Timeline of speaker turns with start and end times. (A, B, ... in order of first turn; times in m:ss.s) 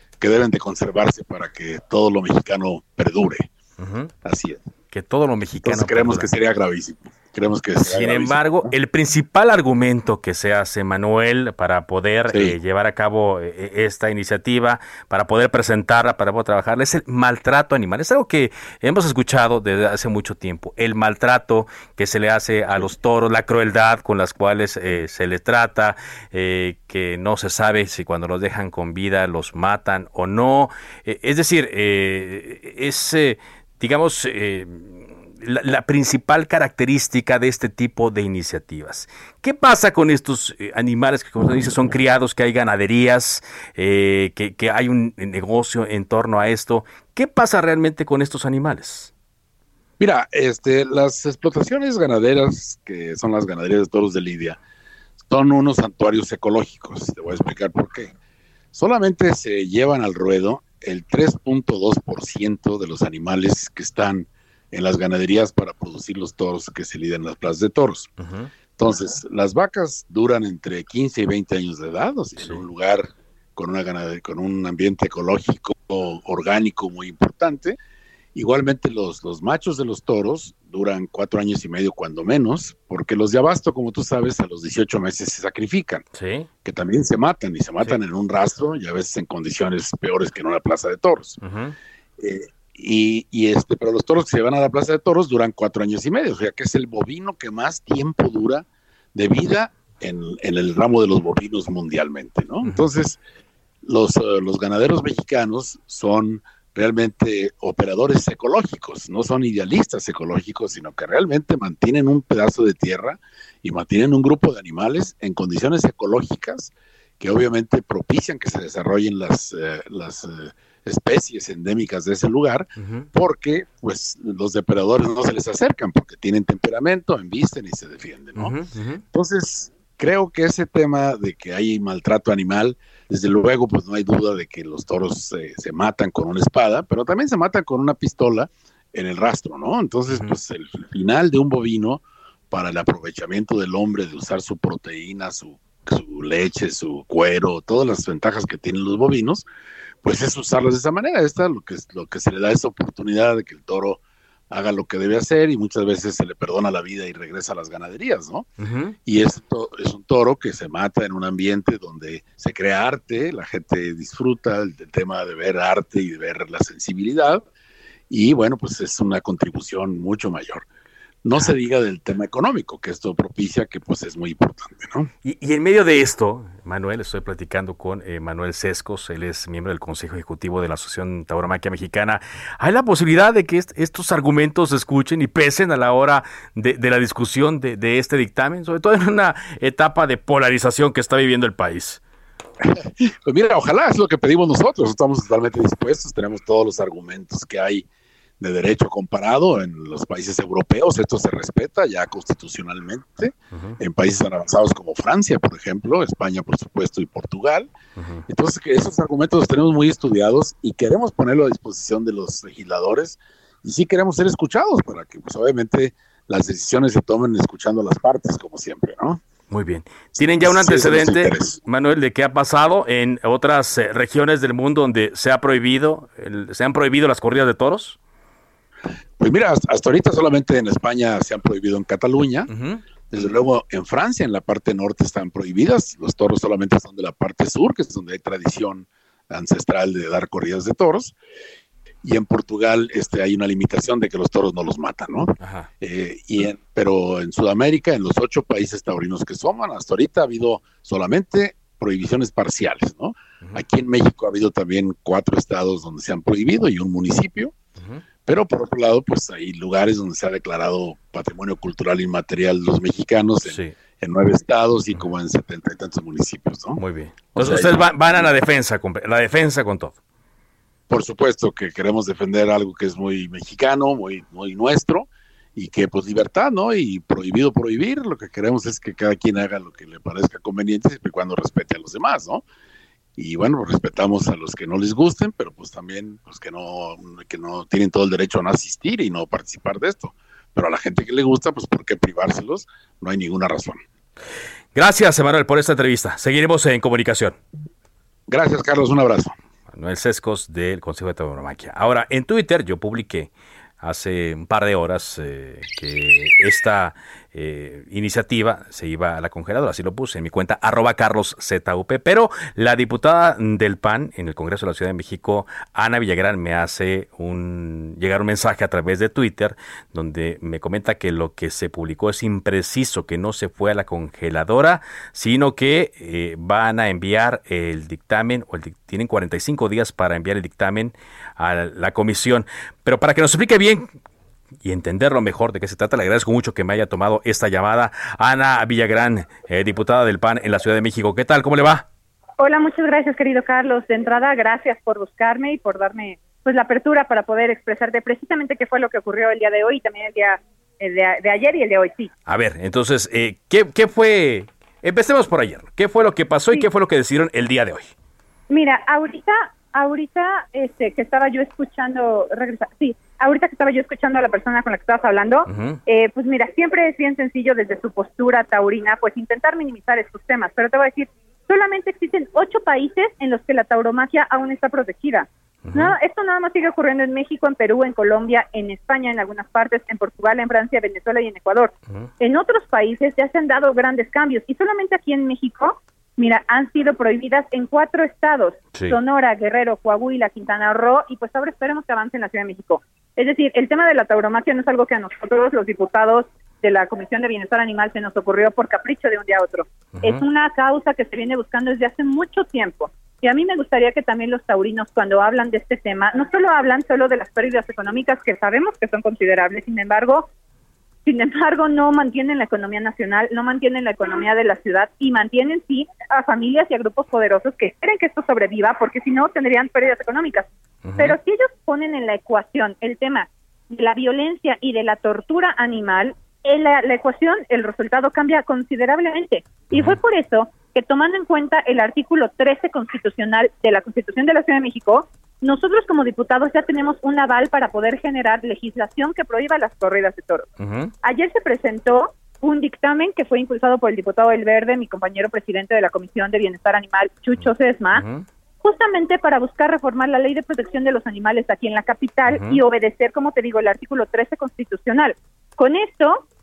0:00.2-0:03.5 A
0:03.8-0:04.1 B
0:04.2-0:04.6 A
0:04.9-0:06.3 B
0:05.6-0:08.5 A
0:07.8-0:49.1 B
0:12.3-0:12.6 A
0:50.0-0:54.6 A
0:55.3-0:58.1 A
0:58.7-1:08.1 A
1:08.2-1:08.5 B
1:08.8-1:17.8 A
1:12.4-1:12.6 B
1:18.3-1:26.0 A
1:26.1-1:26.5 B
1:26.6-1:31.4 A
1:31.4-1:31.7 B
1:32.2-1:43.2 A
1:43.8-2:08.6 A
2:02.8-2:03.1 B
2:08.4-2:09.0 B
2:09.1-2:29.4 A
2:20.1-2:20.4 B
2:30.0-2:38.5 A
2:38.6-2:39.0 B
2:39.0-2:47.4 A
2:48.1-2:50.6 A
2:51.2-2:55.1 A
2:55.2-3:12.0 B
3:12.6-3:17.8 A
3:18.4-3:27.7 A
3:23.5-3:23.8 B
3:28.0-3:28.2 B
3:28.3-3:39.2 A
3:39.5-3:48.0 B
3:40.1-3:41.6 A
3:49.2-3:52.5 A
3:52.5-3:52.8 B
3:53.1-4:01.1 A
4:02.0-4:17.5 A
4:05.4-4:05.7 B
4:18.2-4:26.8 A
4:23.4-4:23.7 B
4:26.8-4:30.0 B
4:27.3-4:27.8 A
4:30.9-4:42.4 A
4:43.2-4:53.8 A
4:54.7-4:57.4 B
4:58.3-4:59.3 A
4:59.7-5:33.9 B
5:34.6-5:41.8 B
5:42.4-5:52.1 C
5:52.3-5:57.9 B
5:58.5-6:50.3 C
6:05.5-6:05.8 B
6:15.6-6:15.9 B
6:40.0-6:40.2 B
6:51.0-7:20.5 C
7:00.8-7:01.2 B
7:09.7-7:10.0 B
7:20.6-7:20.9 B
7:21.0-7:28.0 C
7:27.4-7:28.2 B
7:28.6-7:36.2 C
7:32.3-7:32.6 B